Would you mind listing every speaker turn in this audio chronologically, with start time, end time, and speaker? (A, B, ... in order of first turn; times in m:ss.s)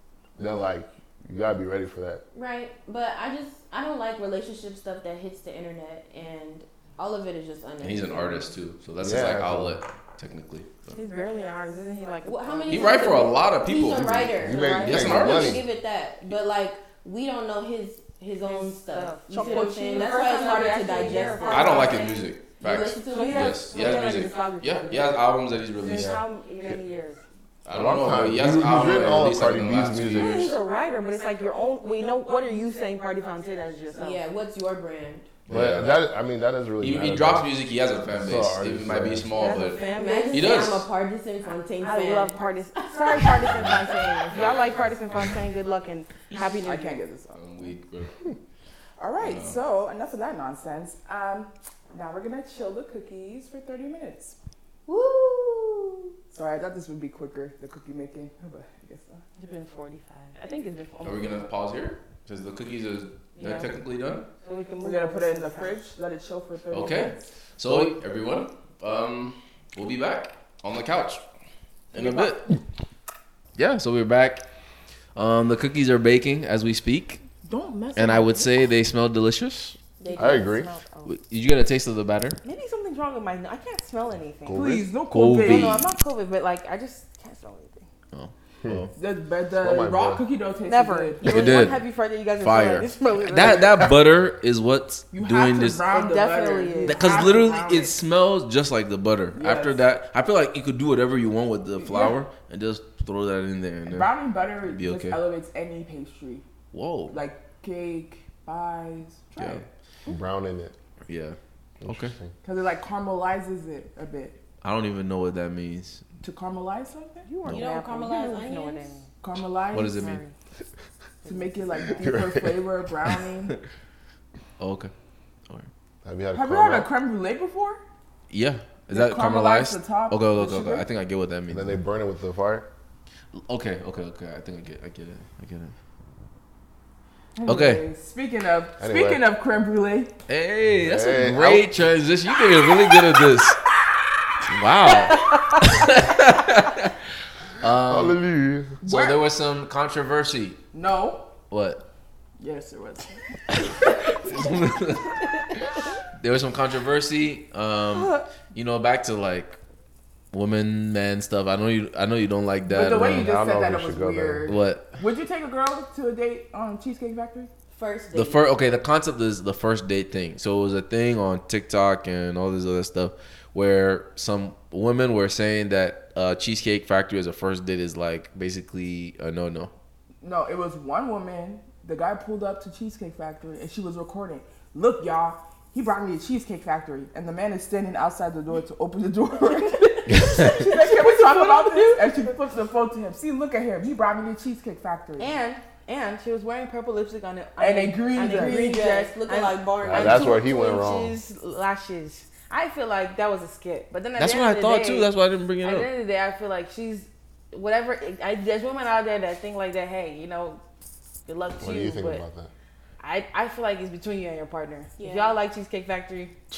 0:00.4-0:02.2 A
0:02.3-0:08.5 B
0:07.8-0:11.0 C
0:09.0-0:09.8 A
0:10.9-0:13.3 D
0:12.2-0:23.9 B
0:12.7-0:15.6 C
0:14.4-0:15.6 A
0:18.4-0:25.3 D
0:19.3-0:20.1 E
0:21.4-0:26.2 C
0:25.8-0:27.2 D
0:25.9-0:26.2 A
0:27.6-0:30.5 C
0:27.7-0:30.5 A
0:30.1-0:34.2 D
0:34.0-0:35.3 B
0:35.5-0:36.0 C
0:35.5-0:37.5 A
0:36.8-0:40.9 C
0:38.1-0:39.4 A
0:39.3-0:40.8 D
0:39.9-0:44.2 B
0:41.8-0:47.0 D
0:44.3-0:44.8 C
0:46.6-0:47.4 E
0:47.3-0:48.4 C
0:49.0-0:54.4 E
0:49.2-0:49.6 C
0:54.9-0:56.1 B
0:56.3-0:59.2 E
0:59.4-1:01.4 D
1:01.0-1:04.3 C
1:03.4-1:03.7 D
1:04.4-1:05.8 D
1:04.8-1:07.3 E
1:06.7-1:11.2 C
1:11.9-1:12.5 C
1:12.0-1:12.4 E
1:13.6-1:14.4 C
1:15.2-1:17.2 C
1:17.4-1:18.2 E
1:18.0-1:19.8 C
1:20.0-1:20.5 B
1:20.0-1:21.1 D
1:20.2-1:20.7 A
1:21.1-1:22.4 C
1:22.4-1:24.8 D
1:24.5-1:24.8 A
1:24.5-1:25.9 E
1:25.1-1:25.9 C
1:25.4-1:27.9 D
1:28.1-1:28.9 C
1:29.0-1:31.5 E
1:29.6-1:30.2 A
1:30.6-1:33.9 D
1:31.2-1:31.8 C
1:32.4-1:35.9 C
1:35.1-1:37.9 E
1:35.9-1:37.3 D
1:36.8-1:44.1 C
1:39.4-1:39.8 E
1:41.8-1:42.2 E
1:43.9-1:46.4 E
1:44.6-1:45.2 C
1:46.7-1:47.2 C
1:47.1-1:49.7 E
1:49.4-1:49.6 C
1:50.1-1:50.7 A
1:51.1-1:52.2 C
1:51.8-1:52.3 A
1:52.4-1:54.4 E
1:54.6-1:56.0 C
1:56.2-1:57.3 E
1:57.3-1:59.1 D
1:57.4-1:59.0 B
1:59.2-2:00.2 E
1:59.7-2:00.2 C
1:59.8-2:00.3 D
2:01.2-2:01.8 D
2:01.2-2:03.6 E
2:01.9-2:02.6 A
2:04.6-2:04.9 C
2:06.0-2:06.9 A
2:06.3-2:07.8 E
2:08.3-2:11.8 C
2:08.9-2:10.8 E
2:11.5-2:12.7 A
2:13.3-2:15.7 C
2:17.4-2:20.1 E
2:17.5-2:17.8 C
2:18.8-2:19.2 A
2:20.3-2:23.6 C
2:20.8-2:21.8 A
2:24.5-2:27.0 C
2:25.1-2:25.8 D
2:27.6-2:28.2 C
2:27.8-2:28.8 A
2:28.8-2:29.2 E
2:28.8-2:30.6 C
2:30.7-2:31.3 E
2:31.5-2:31.8 C
2:32.4-2:33.2 E
2:33.5-2:39.6 C
2:37.9-2:38.3 D
2:40.3-2:43.3 C
2:42.7-2:47.5 E
2:43.0-2:44.5 A
2:44.5-2:45.0 C
2:47.7-2:48.4 B
2:48.1-2:59.7 C
3:00.2-3:15.4 E
3:10.1-3:12.3 D
3:10.2-3:10.5 C
3:15.2-3:25.1 D
3:17.6-3:18.6 E
3:18.3-3:20.4 B
3:19.8-3:21.2 A
3:24.2-3:25.9 C
3:25.6-3:30.6 D
3:31.3-3:32.2 D
3:31.6-3:32.5 A
3:33.0-3:36.3 D
3:35.0-3:35.4 B